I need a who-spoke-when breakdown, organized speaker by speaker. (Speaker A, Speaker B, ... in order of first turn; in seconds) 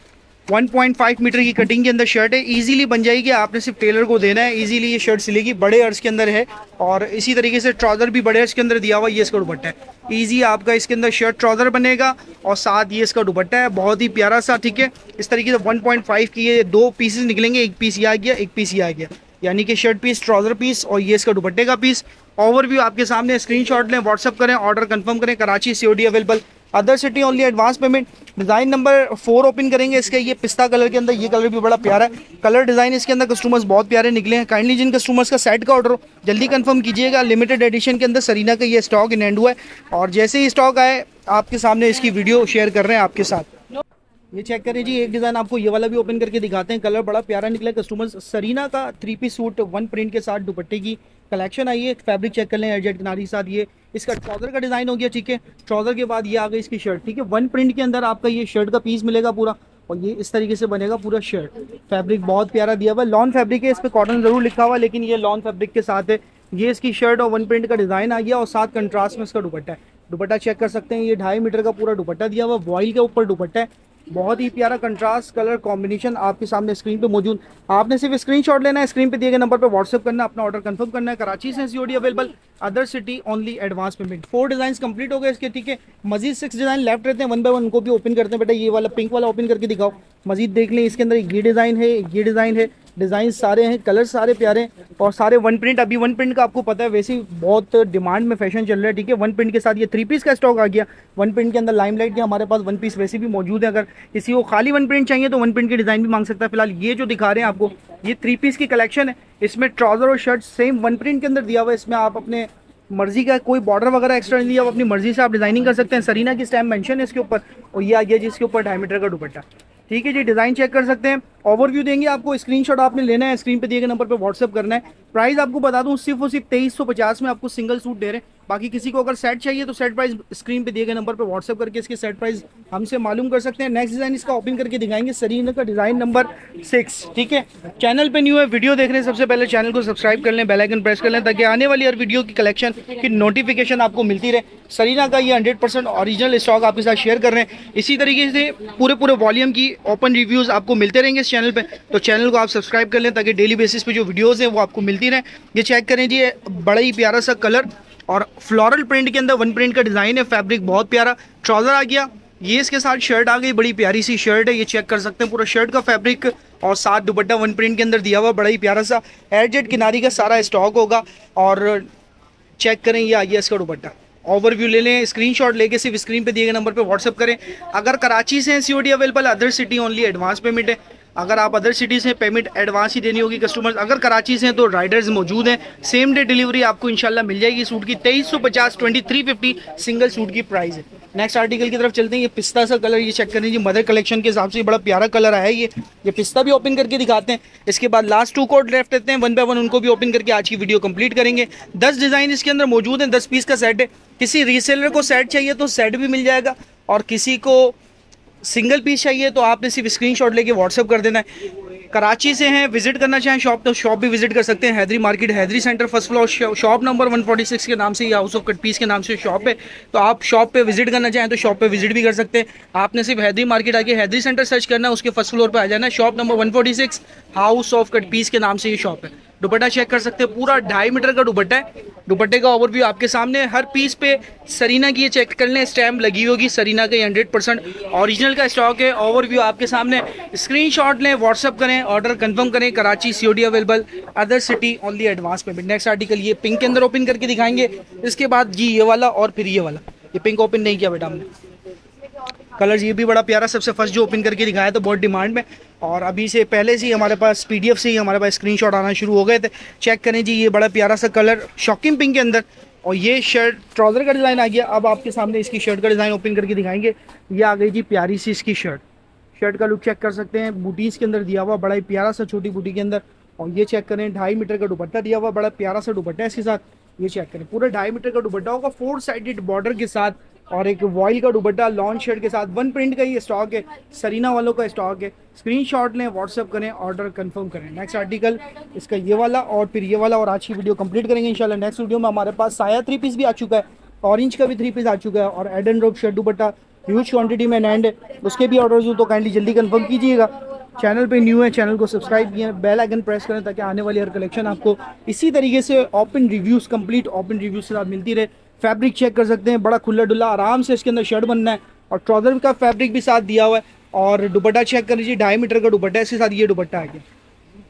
Speaker A: 0.5-43.5, 44.3-171.9, 172.6-207.8, 208.4-211.3, 211.9-251.3, 252.6-268.8, 269.4-317.0